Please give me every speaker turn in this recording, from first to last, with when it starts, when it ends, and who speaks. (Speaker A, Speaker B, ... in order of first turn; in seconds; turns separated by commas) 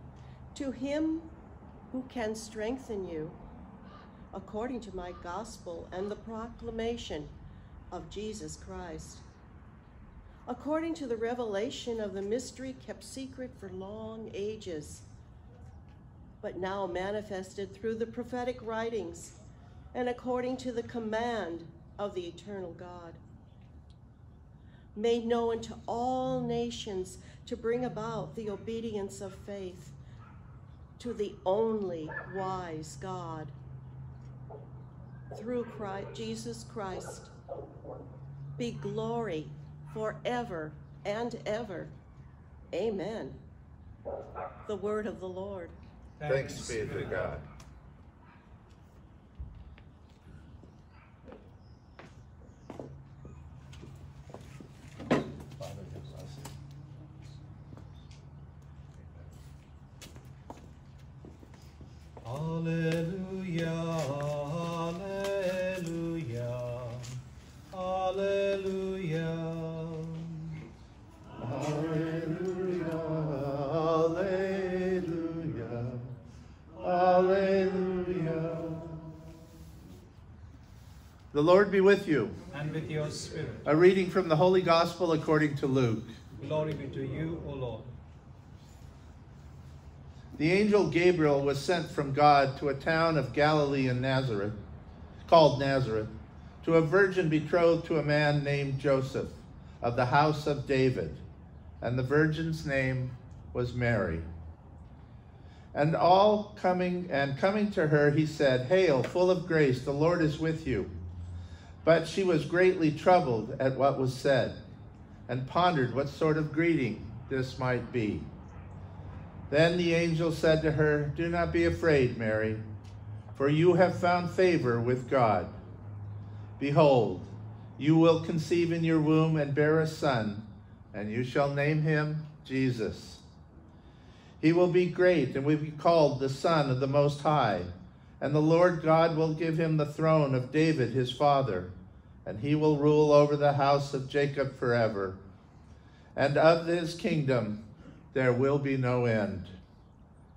Speaker A: 0.5-1.3, Speaker A: 1.9-3.4, Speaker A: 4.3-7.3, Speaker A: 7.9-9.2, Speaker A: 10.5-15.1, Speaker A: 16.4-19.3, Speaker A: 19.9-23.2, Speaker A: 24.9-29.9, Speaker A: 31.0-33.5, Speaker A: 35.3-37.3, Speaker A: 38.6-41.9, Speaker A: 42.7-43.4, Speaker A: 44.6-45.7, Speaker B: 46.2-47.4, Speaker C: 46.2-47.4, Speaker C: 55.6-56.5, Speaker B: 62.2-67.2, Speaker B: 67.7-70.5, Speaker C: 71.4-76.1, Speaker C: 76.8-79.2, Speaker C: 81.3-82.4, Speaker B: 82.5-83.7, Speaker C: 83.6-86.1, Speaker B: 86.3-87.9, Speaker C: 90.4-94.6, Speaker C: 95.2-101.2, Speaker C: 101.8-104.3, Speaker C: 105.7-110.9, Speaker C: 111.8-114.6, Speaker C: 115.3-118.3, Speaker C: 119.5-122.6, Speaker C: 123.3-125.5, Speaker C: 126.6-133.2, Speaker C: 134.4-145.2, Speaker C: 146.1-149.6